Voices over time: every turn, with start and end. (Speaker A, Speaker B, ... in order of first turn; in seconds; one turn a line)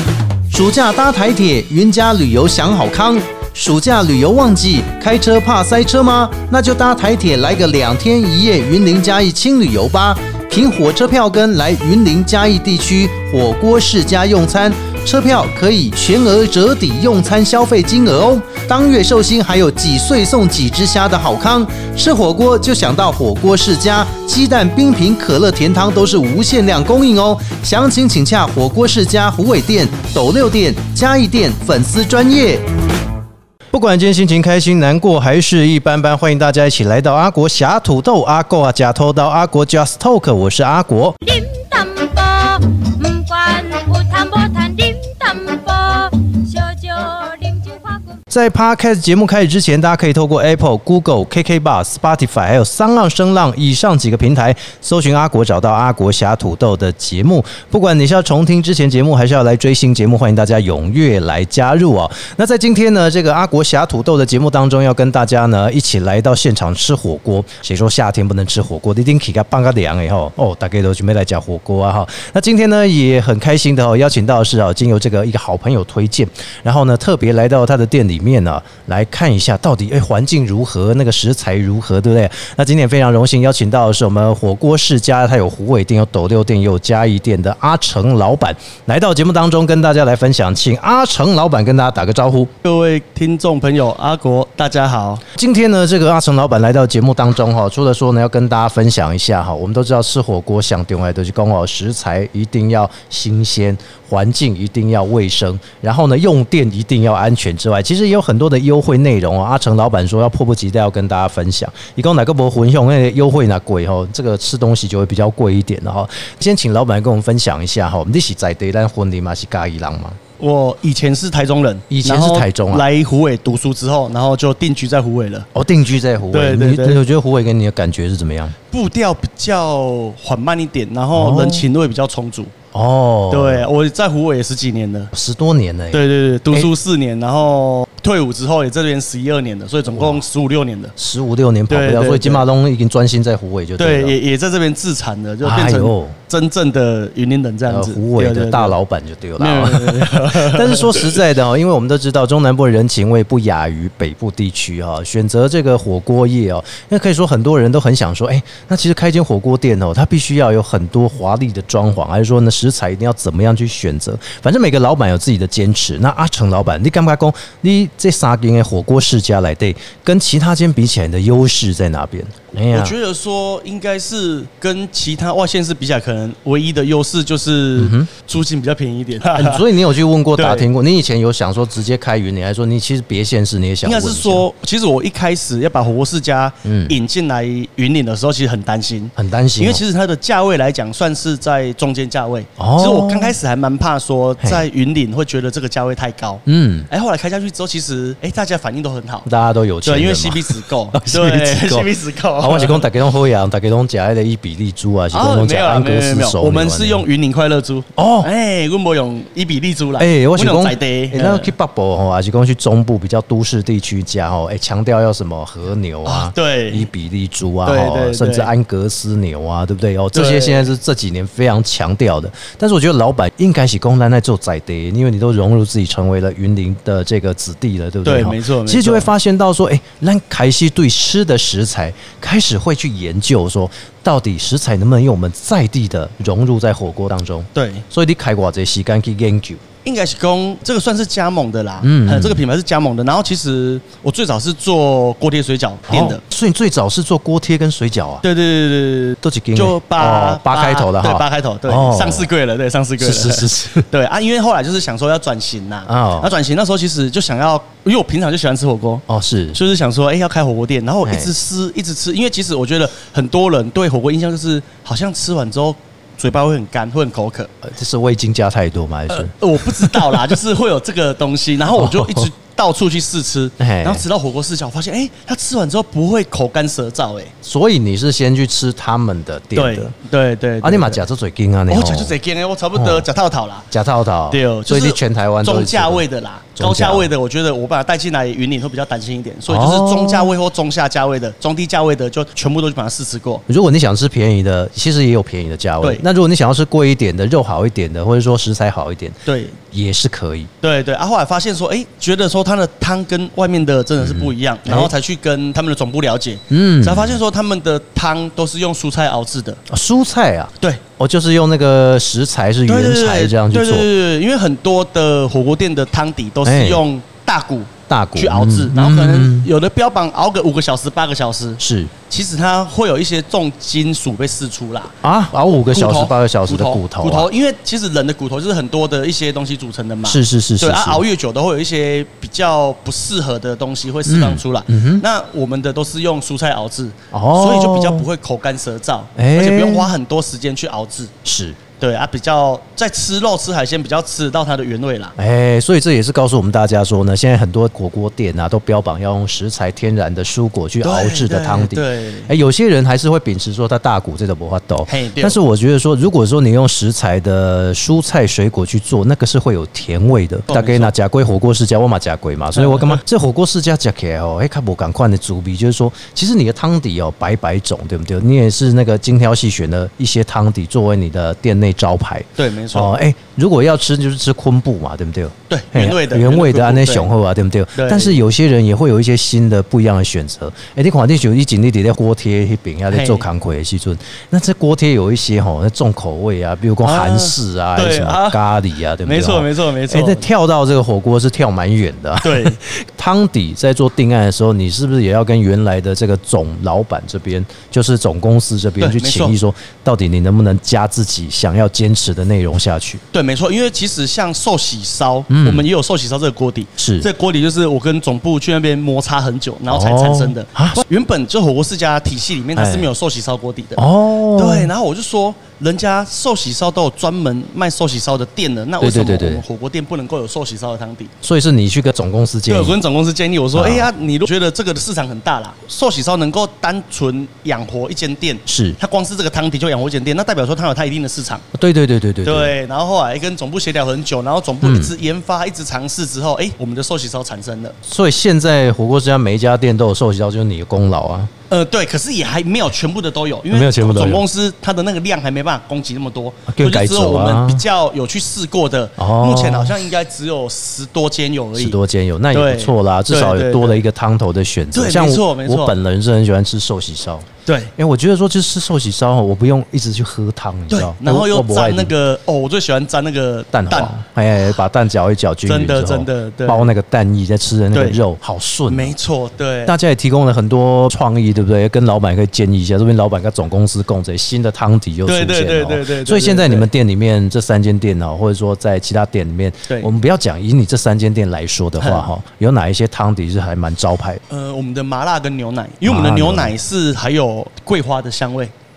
Speaker A: 0.5-32.6
Speaker A: 33.7-41.2
Speaker B: 41.2-48.2
Speaker A: 48.3-92.5
Speaker C: 92.6-95.2
Speaker A: 95.3-120.2
Speaker C: 120.4-125.5
Speaker A: 121.9-122.9
Speaker A: 125.5-128.6
Speaker C: 126.3-127.0
Speaker C: 128.7-132.5
Speaker A: 131.2-131.7
Speaker A: 132.7-133.7
Speaker C: 133.3-135.1
Speaker A: 135.1-136.7
Speaker C: 135.9-140.9
Speaker A: 139.9-140.2
Speaker A: 141.0-144.2
Speaker C: 141.7-142.5
Speaker C: 143.8-148.8
Speaker A: 145.4-146.2
Speaker A: 147.7-172.9
Speaker C: 149.4-151.2
Speaker C: 172.7-179.7
Speaker A: 177.8-178.1
Speaker A: 179.3-184.5
Speaker C: 180.4-180.7
Speaker C: 183.8-199.3
Speaker A: 186.7-186.9
Speaker A: 189.2-189.8
Speaker A: 192.6-193.4
Speaker A: 196.5-196.9
Speaker A: 199.2-207.0
Speaker C: 199.8-202.9
Speaker C: 205.1-211.5
Speaker A: 208.0-208.3
Speaker A: 210.0-239.6
Speaker C: 216.1-216.9
Speaker C: 217.7-218.5
Speaker C: 220.1-220.7
Speaker C: 228.1-229.1
Speaker C: 237.6-237.8
Speaker C: 239.8-246.2
Speaker A: 241.8-242.4
Speaker A: 245.9-248.2
Speaker C: 248.2-259.0
Speaker A: 249.2-252.3
Speaker A: 253.0-253.9
Speaker A: 255.9-256.3
Speaker A: 259.1-259.6
Speaker C: 259.6-267.5
Speaker A: 261.1-261.3
Speaker A: 267.6-270.2
Speaker C: 269.1-277.3
Speaker A: 271.7-272.3
Speaker A: 273.6-274.0
Speaker A: 277.4-279.9
Speaker C: 279.6-281.0
Speaker A: 280.6-282.1
Speaker C: 281.7-283.7
Speaker A: 282.8-283.1
Speaker A: 283.7-286.0
Speaker C: 284.3-293.4
Speaker A: 286.6-287.1
Speaker A: 289.5-290.4
Speaker A: 293.5-299.2
Speaker C: 299.3-299.6
Speaker A: 299.7-300.5
Speaker C: 300.6-309.6
Speaker A: 304.0-304.9
Speaker A: 306.5-307.2
Speaker A: 309.7-313.9
Speaker C: 312.7-324.9
Speaker A: 316.4-316.8
Speaker A: 317.9-319.5
Speaker A: 321.6-321.9
Speaker A: 325.0-327.3
Speaker C: 325.6-341.1
Speaker A: 330.1-331.0
Speaker A: 334.1-335.0
Speaker A: 337.1-338.1
Speaker A: 339.2-339.9
Speaker A: 341.2-341.6
Speaker C: 341.8-345.1
Speaker A: 345.2-403.0
Speaker C: 350.8-352.3
Speaker C: 354.9-355.4
Speaker C: 360.5-360.9
Speaker C: 362.6-363.0
Speaker C: 372.4-372.9
Speaker C: 375.5-377.1
Speaker C: 377.8-378.2
Speaker C: 382.9-383.3
Speaker C: 386.8-388.4
Speaker C: 389.0-390.3
Speaker C: 392.2-392.6
Speaker C: 398.8-399.4
Speaker C: 403.1-413.8
Speaker A: 405.3-405.7
Speaker A: 406.8-407.1
Speaker A: 409.7-410.8
Speaker A: 412.6-412.9
Speaker A: 413.8-414.7
Speaker C: 414.4-421.1
Speaker A: 418.8-419.4
Speaker A: 421.2-422.8
Speaker C: 422.5-431.4
Speaker A: 423.6-423.9
Speaker A: 428.5-428.8
Speaker A: 431.5-432.5
Speaker C: 432.2-437.8
Speaker A: 434.6-434.9
Speaker A: 437.8-441.3
Speaker C: 441.5-451.8
Speaker A: 443.5-444.2
Speaker A: 446.5-447.6
Speaker A: 449.0-449.8
Speaker A: 451.6-461.9
Speaker C: 452.3-453.8
Speaker C: 454.7-455.8
Speaker C: 457.5-457.7
Speaker C: 460.7-464.0
Speaker A: 463.5-468.9
Speaker C: 465.5-466.7
Speaker C: 467.7-468.0
Speaker C: 468.7-469.8
Speaker A: 469.6-484.2
Speaker C: 475.1-476.7
Speaker C: 481.8-482.1
Speaker C: 484.3-488.5
Speaker A: 485.9-486.6